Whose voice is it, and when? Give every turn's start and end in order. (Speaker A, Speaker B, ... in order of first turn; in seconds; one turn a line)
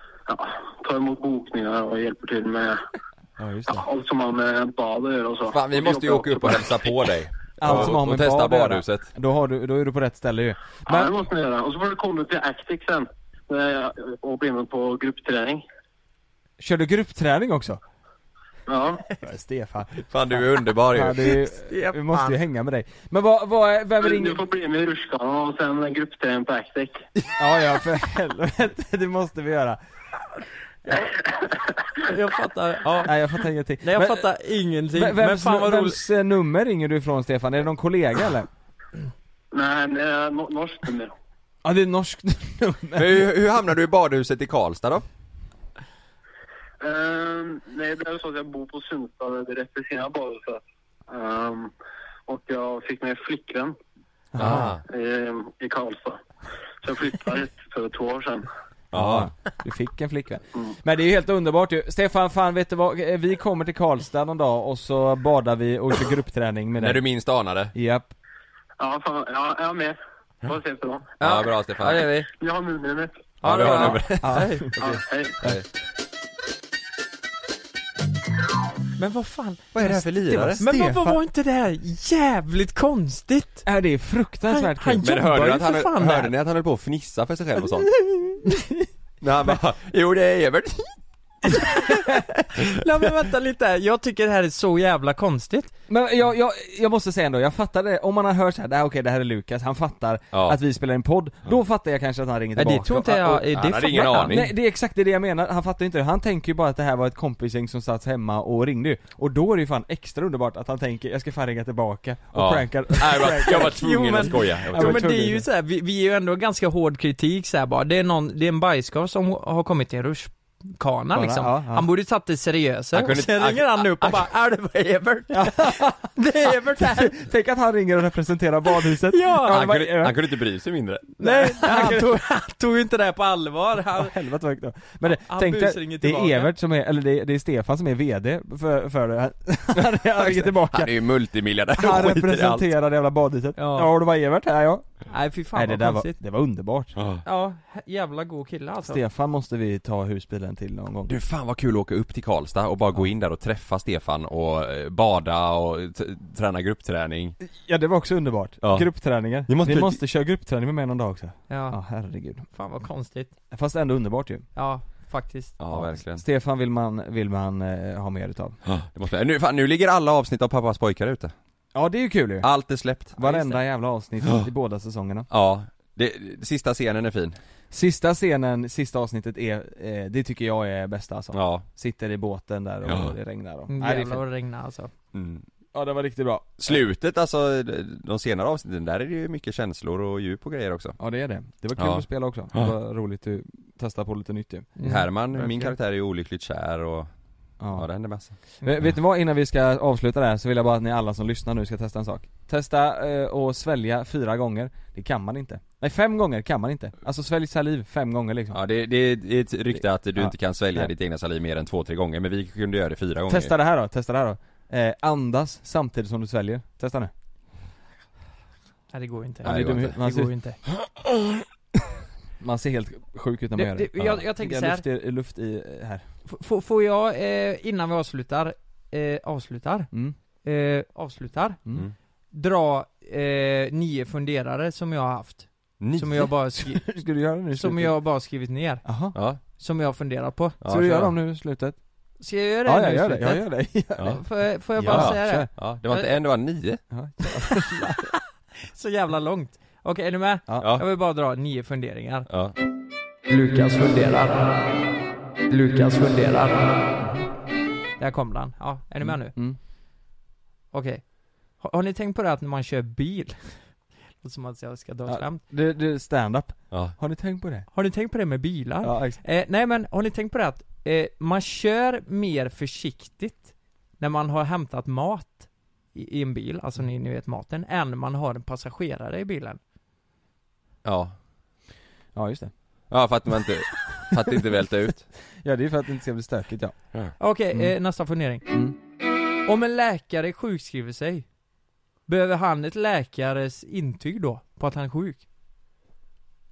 Speaker A: 0.3-2.8
Speaker B: 3.4-3.9
Speaker A: 3.7-6.9
Speaker C: 5.5-9.1
Speaker B: 7.6-11.1
Speaker A: 10.9-15.6
Speaker B: 16.6-17.8
Speaker A: 18.7-19.0
Speaker B: 19.2-24.4
Speaker C: 20.1-21.4
Speaker D: 21.7-22.3
Speaker A: 24.0-27.0
Speaker B: 27.3-29.8
Speaker A: 30.9-31.8
Speaker D: 32.0-33.2
Speaker B: 33.0-34.3
Speaker D: 33.8-36.0
Speaker B: 34.9-38.5
Speaker A: 39.5-41.1
Speaker B: 41.6-43.3
Speaker C: 43.0-45.0
Speaker A: 46.8-51.7
Speaker A: 52.3-53.7
Speaker B: 54.3-54.7
Speaker C: 54.4-54.8
Speaker A: 54.9-56.2
Speaker A: 56.8-58.5
Speaker B: 58.9-67.0
Speaker C: 58.9-59.3
Speaker C: 66.8-67.7
Speaker B: 67.7-68.1
Speaker A: 68.8-71.2
Speaker D: 71.2-72.3
Speaker C: 71.2-72.1
Speaker A: 72.3-73.3
Speaker D: 73.4-74.7
Speaker C: 73.4-75.6
Speaker B: 73.8-74.7
Speaker A: 74.8-75.4
Speaker D: 79.0-80.0
Speaker C: 79.7-80.6
Speaker B: 80.3-81.2
Speaker D: 80.5-83.6
Speaker B: 83.7-85.6
Speaker D: 84.5-86.3
Speaker C: 85.0-87.9
Speaker B: 88.0-88.5
Speaker C: 89.2-91.0
Speaker B: 91.6-92.1
Speaker D: 92.7-95.7
Speaker B: 95.9-103.5
Speaker C: 100.3-100.6
Speaker D: 102.6-104.3
Speaker C: 103.5-104.5
Speaker B: 104.3-115.4
Speaker C: 112.3-115.1
Speaker D: 113.4-127.2
Speaker B: 121.1-121.9
Speaker C: 122.9-124.2
Speaker B: 125.3-126.2
Speaker B: 126.8-130.2
Speaker D: 129.1-129.7
Speaker C: 129.5-131.2
Speaker D: 131.2-134.1
Speaker B: 131.2-132.1
Speaker B: 133.9-140.9
Speaker D: 135.1-136.5
Speaker C: 139.8-142.7
Speaker B: 141.7-144.9
Speaker D: 143.6-143.9
Speaker D: 145.1-146.2
Speaker B: 145.5-146.9
Speaker C: 146.9-147.2
Speaker D: 147.2-149.0
Speaker B: 148.9-151.1
Speaker C: 151.1-157.4
Speaker B: 157.5-162.4
Speaker C: 158.6-158.9
Speaker C: 159.4-160.0
Speaker D: 161.5-161.8
Speaker D: 162.5-163.3
Speaker B: 163.5-164.4
Speaker D: 164.6-165.6
Speaker C: 165.6-166.2
Speaker B: 165.7-168.6
Speaker C: 168.7-171.3
Speaker B: 171.7-172.5
Speaker C: 172.4-173.2
Speaker B: 173.1-175.3
Speaker D: 173.2-173.6
Speaker C: 175.3-177.4
Speaker B: 177.7-184.2
Speaker C: 181.3-181.6
Speaker C: 182.9-183.1
Speaker D: 183.7-184.9
Speaker C: 185.1-185.4
Speaker B: 185.7-186.8
Speaker C: 186.6-191.0
Speaker B: 191.0-195.7
Speaker C: 191.8-192.7
Speaker D: 194.8-195.0
Speaker C: 194.8-197.1
Speaker B: 197.6-197.9
Speaker C: 197.7-198.3
Speaker B: 198.6-208.6
Speaker C: 208.5-213.5
Speaker B: 209.7-210.9
Speaker B: 213.3-217.1
Speaker D: 218.9-220.6
Speaker C: 219.4-219.9
Speaker B: 219.4-220.3
Speaker B: 222.4-226.0
Speaker D: 223.6-224.8
Speaker D: 226.3-229.9
Speaker D: 230.4-231.6
Speaker D: 232.3-236.9
Speaker C: 235.8-236.3
Speaker B: 236.6-237.9
Speaker D: 237.5-238.8
Speaker B: 238.8-239.2
Speaker C: 239.1-239.4
Speaker D: 239.6-240.6
Speaker C: 240.6-241.1
Speaker B: 240.7-241.8
Speaker D: 242.2-243.5
Speaker B: 242.6-245.5
Speaker D: 244.1-246.1
Speaker C: 244.8-246.8
Speaker B: 246.9-248.1
Speaker D: 247.5-247.9
Speaker D: 248.7-252.3
Speaker B: 250.5-250.7
Speaker C: 252.3-252.5
Speaker D: 253.3-254.6
Speaker D: 255.5-256.8
Speaker B: 257.0-257.2
Speaker D: 258.0-259.4
Speaker B: 259.0-259.6
Speaker D: 260.7-261.1
Speaker D: 261.6-265.4
Speaker B: 265.1-267.7
Speaker D: 267.7-279.6
Speaker B: 268.8-269.2
Speaker C: 280.9-281.1
Speaker B: 282.1-282.5
Speaker C: 282.9-285.1
Speaker B: 285.4-287.0
Speaker D: 287.2-288.6
Speaker B: 288.5-288.7
Speaker D: 289.4-291.3
Speaker D: 292.1-295.2